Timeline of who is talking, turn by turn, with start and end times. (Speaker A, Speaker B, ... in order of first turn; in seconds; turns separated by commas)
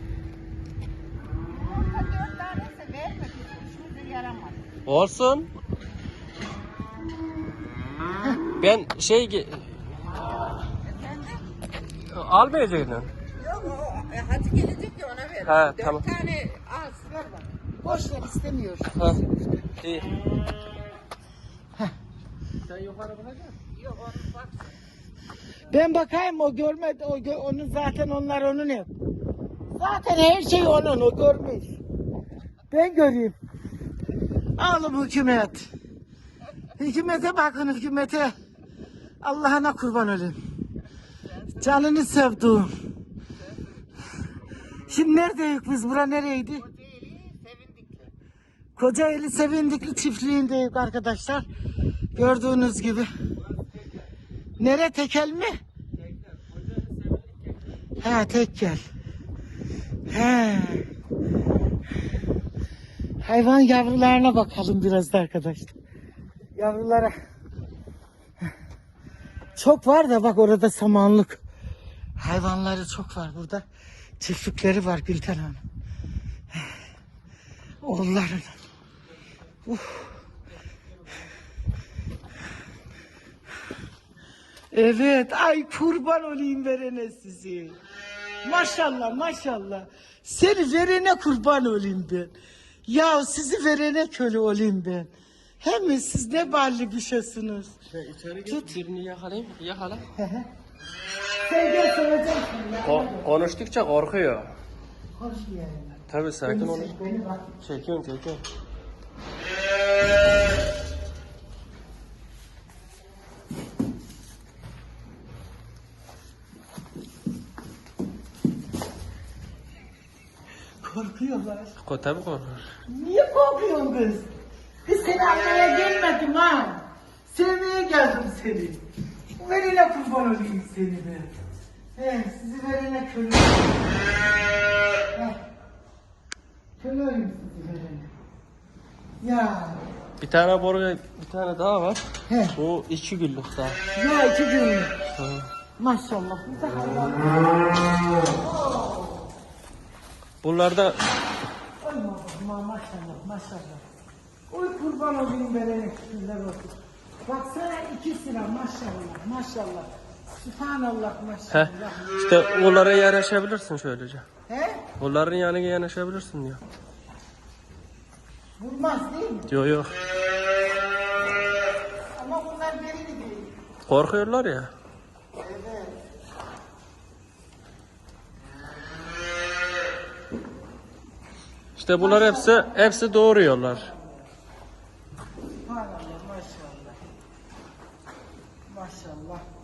Speaker A: 1.6-4.7, Speaker B: 4.9-5.5, Speaker B: 8.6-9.8, Speaker A: 11.0-11.4, Speaker B: 12.1-13.1, Speaker A: 13.4-17.5, Speaker B: 15.4-16.2, Speaker C: 17.7-19.7, Speaker B: 19.8-20.1, Speaker B: 22.6-23.6, Speaker A: 23.8-24.7, Speaker C: 25.7-28.9, Speaker C: 29.7-31.8, Speaker C: 32.7-33.4, Speaker C: 34.6-35.7, Speaker C: 36.8-38.3, Speaker C: 39.2-40.4, Speaker C: 41.5-42.7, Speaker C: 44.9-46.7, Speaker A: 46.7-48.1, Speaker C: 48.8-51.5, Speaker C: 52.1-53.1, Speaker B: 53.5-54.1, Speaker C: 54.6-55.6, Speaker B: 56.0-57.5, Speaker C: 58.0-58.8, Speaker C: 60.1-60.9, Speaker C: 63.2-65.8, Speaker C: 66.5-67.1, Speaker C: 69.6-71.4, Speaker C: 72.2-73.7, Speaker C: 74.2-75.6, Speaker C: 77.8-78.6, Speaker C: 79.7-80.2, Speaker C: 84.7-87.8, Speaker C: 88.4-92.3, Speaker C: 92.9-95.1, Speaker C: 95.6-97.8, Speaker B: 97.9-100.1, Speaker C: 98.5-98.8, Speaker C: 100.2-100.5, Speaker C: 101.5-103.3, Speaker B: 102.8-104.5, Speaker C: 105.2-107.5, Speaker B: 106.1-107.0, Speaker B: 107.6-108.4, Speaker C: 120.8-121.8, Speaker B: 121.8-122.7, Speaker C: 122.9-124.3, Speaker C: 124.9-128.8, Speaker C: 129.4-131.3, Speaker C: 132.0-134.1, Speaker C: 136.8-138.1, Speaker C: 139.2-139.8, Speaker B: 140.2-143.8, Speaker C: 142.3-142.6, Speaker C: 143.9-144.9, Speaker B: 145.1-145.5, Speaker C: 145.8-149.3, Speaker B: 150.4-151.0, Speaker C: 151.8-153.8, Speaker C: 154.5-162.1, Speaker B: 161.5-164.3, Speaker C: 164.5-164.9, Speaker B: 165.0-166.6, Speaker C: 168.6-169.5, Speaker B: 169.5-169.9, Speaker C: 172.2-173.6, Speaker B: 173.9-174.7, Speaker C: 175.4-176.0, Speaker B: 181.8-183.9, Speaker C: 182.0-184.3, Speaker C: 185.6-187.0, Speaker C: 188.7-189.4